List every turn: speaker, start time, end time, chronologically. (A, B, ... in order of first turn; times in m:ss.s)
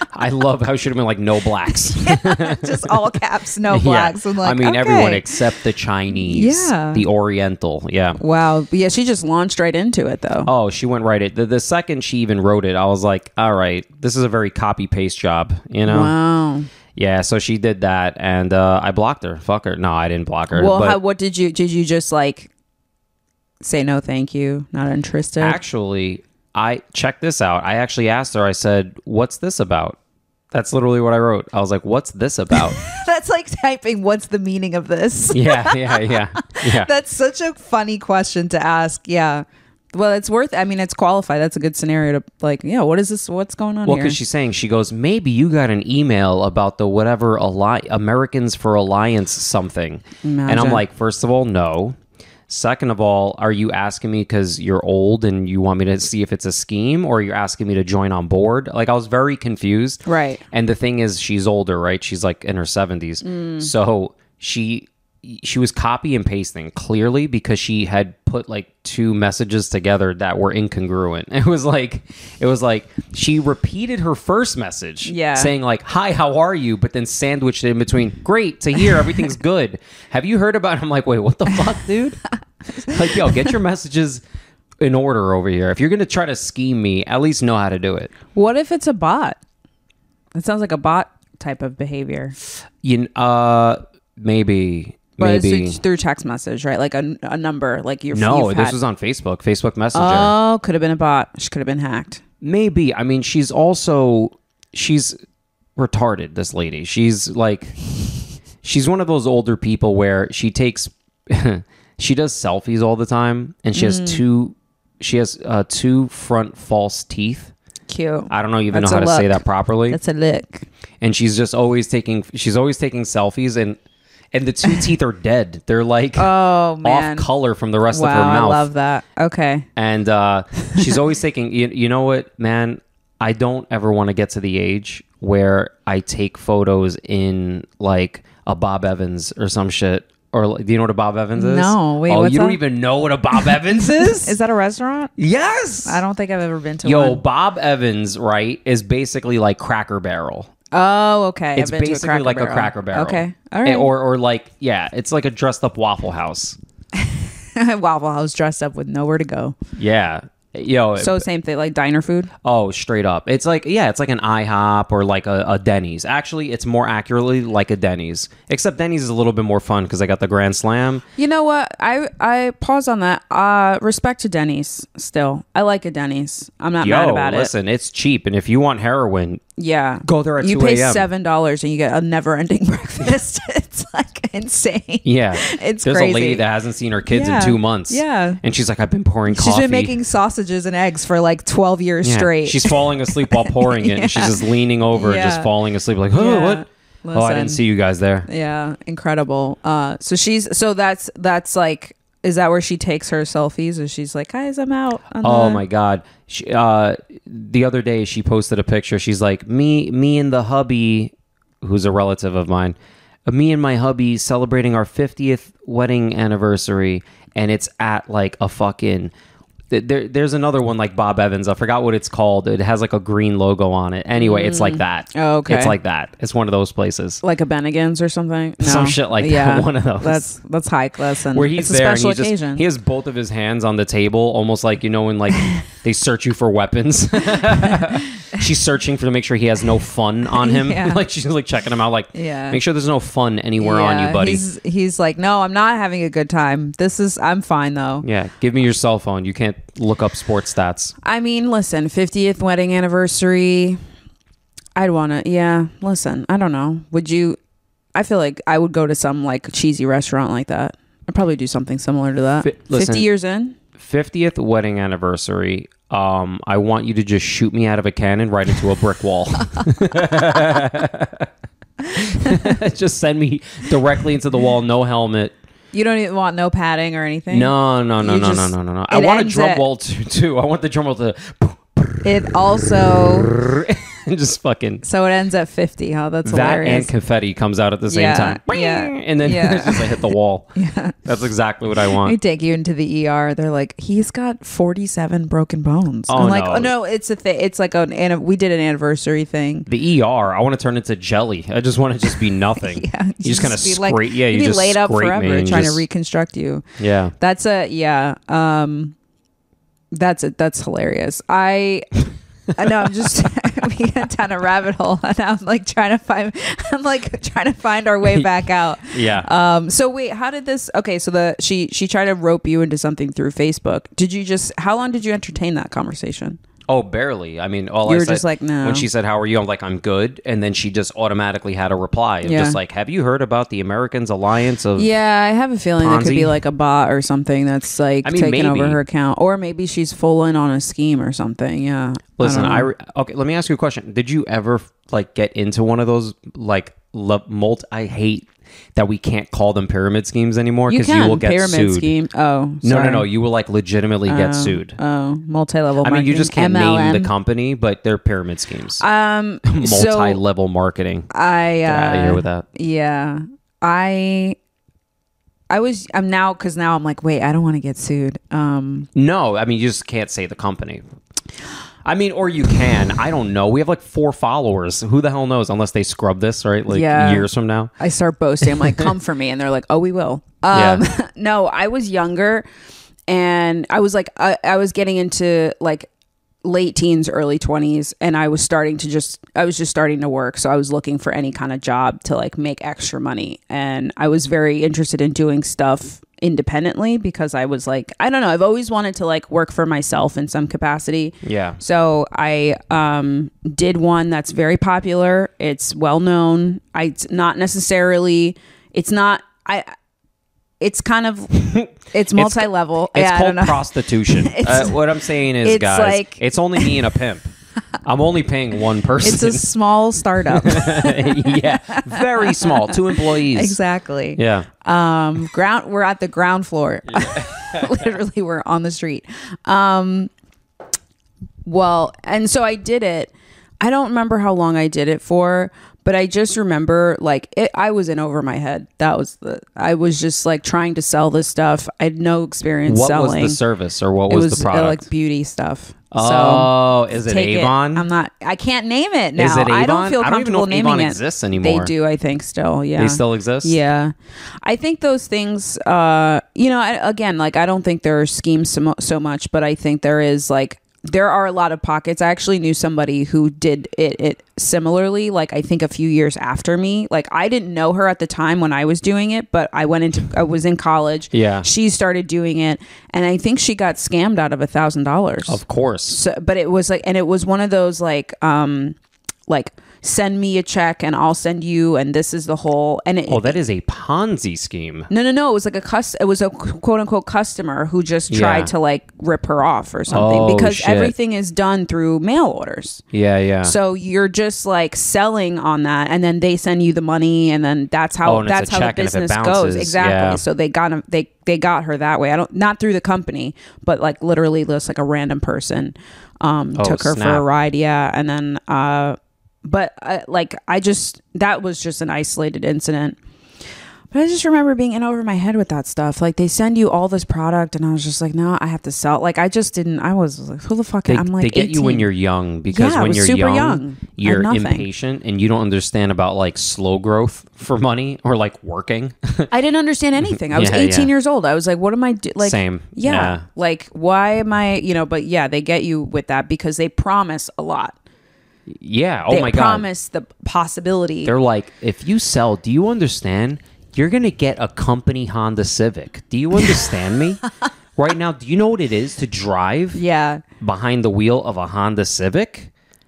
0:00.1-0:03.1 A
0:01.6-0:05.4 B
0:03.7-0:08.2 A
0:06.1-0:07.0 B
0:08.2-0:10.5 B
0:10.4-0:16.1 A
0:15.8-0:16.7 B
0:17.0-0:21.0 A
0:20.5-0:22.5 B
0:23.6-0:25.6 B
0:25.4-0:30.0 A
0:30.5-0:32.8 A
0:32.5-0:44.2 B
0:35.3-0:36.9 A
0:43.8-0:52.0 A
0:50.2-0:50.8 B
0:52.5-1:22.2 A
1:00.0-1:00.4 B
1:03.2-1:03.7 B
1:15.0-1:15.5 B
1:22.8-1:24.2 A
1:22.8-1:23.3 B
1:24.8-1:28.1 A
1:28.3-1:29.4 B
1:30.3-1:32.4 B
1:32.8-1:35.8 A
1:35.2-1:38.8 B
1:38.1-1:40.3 A
1:39.9-1:42.2 B
1:42.4-1:45.2 A
1:45.8-1:47.9 A
1:48.6-1:57.5 A
1:53.7-1:54.2 B
1:57.9-2:00.7 B
1:58.3-2:00.0 A
2:01.0-2:03.8 A
2:04.3-2:06.3 A
2:06.2-2:07.3 B
2:06.8-2:08.7 A
2:07.9-2:09.7 B
2:09.8-2:24.4 A
2:10.6-2:10.9 B
2:21.3-2:22.6 B
2:23.4-2:25.1 B
2:25.2-2:26.0 A
2:25.8-2:27.2 B
2:26.8-2:30.5 A
2:30.7-2:33.9 B
2:31.5-2:36.6 A
2:36.9-2:39.5 B
2:39.8-2:41.2 A
2:41.0-2:42.3 B
2:42.4-2:51.0 A
2:51.2-2:57.5 B
2:56.8-2:59.4 A
2:59.6-3:06.4 B
3:00.0-3:01.1 A
3:05.0-3:09.9 A
3:07.1-3:08.4 B
3:09.3-3:15.5 B
3:12.0-3:18.3 A
3:16.1-3:17.6 B
3:18.3-3:25.6 B
3:25.2-3:32.7 A
3:33.2-3:39.1 A
3:39.7-3:47.2 A
3:44.2-3:45.8 B
3:47.2-3:52.6 B
3:48.6-3:50.3 A
3:51.3-4:04.4 A
4:00.3-4:01.0 B
4:02.1-4:02.6 B
4:03.6-4:08.0 B
4:08.0-4:10.9 A
4:11.0-4:13.8 B
4:14.8-4:17.4 B
4:17.9-4:23.6 B
4:22.4-4:23.1 A
4:23.8-4:31.3 A
4:31.8-4:35.3 A
4:32.2-4:32.5 B
4:35.7-4:39.6 B
4:37.3-4:44.8 A
4:42.0-4:43.3 B
4:44.8-4:46.9 B
4:46.2-4:50.5 A
4:47.9-4:51.0 B
4:51.0-4:52.2 A
4:51.9-4:59.7 B
4:56.1-4:56.7 A
4:59.7-5:05.8 A
5:02.6-5:06.6 B
5:06.8-5:07.1 A
5:07.2-5:08.9 B
5:09.9-5:12.0 B
5:12.5-5:26.4 B
5:18.8-5:19.3 A
5:26.7-5:34.9 A
5:27.8-5:28.9 B
5:32.2-5:32.6 B
5:34.8-5:42.7 B
5:35.8-5:36.3 A
5:38.0-5:38.8 A
5:42.2-5:51.9 A
5:50.7-5:53.0 B
5:52.6-5:54.8 A
5:54.1-5:57.1 B
5:55.8-5:58.8 A
5:58.8-6:00.2 B
5:59.4-6:01.1 A
6:01.1-6:04.4 B
6:01.6-6:02.4 A
6:05.5-6:08.9 B
6:08.9-6:10.8 A
6:11.8-6:17.7 A
6:16.7-6:22.4 B
6:18.4-6:18.8 A
6:20.5-6:20.8 A
6:23.1-6:25.9 B
6:26.4-6:49.7 B
6:41.2-6:41.6 A
6:50.6-6:54.8 B
6:51.3-6:57.3 A
6:55.4-6:56.8 B
6:57.8-6:59.4 A
6:59.0-7:10.1 B
7:00.2-7:03.6 A
7:04.2-7:04.5 A
7:06.9-7:07.9 A
7:11.4-7:23.4 B
7:22.7-7:24.8 A
7:24.1-7:58.8 B
7:25.9-7:27.8 A
7:29.2-7:31.7 A
7:32.8-7:33.6 A
7:51.1-7:51.5 A
7:55.3-7:56.0 A
7:59.3-8:03.3 B
8:03.1-8:04.9 A
8:04.9-8:12.8 B
8:08.1-8:08.5 A
8:09.9-8:10.9 A
8:12.9-8:13.5 A
8:13.4-8:33.0 B
8:18.0-8:20.2 A
8:26.6-8:27.2 A
8:33.9-8:41.9 B
8:40.9-8:49.3 A
8:42.5-8:44.6 B
8:49.3-8:57.8 B
8:50.0-8:50.9 A
8:52.2-8:53.2 A
8:58.5-8:59.6 A
8:59.1-9:01.1 B
9:01.0-9:07.2 A
9:07.8-9:09.8 A
9:09.7-9:10.2 B
9:10.4-9:12.5 A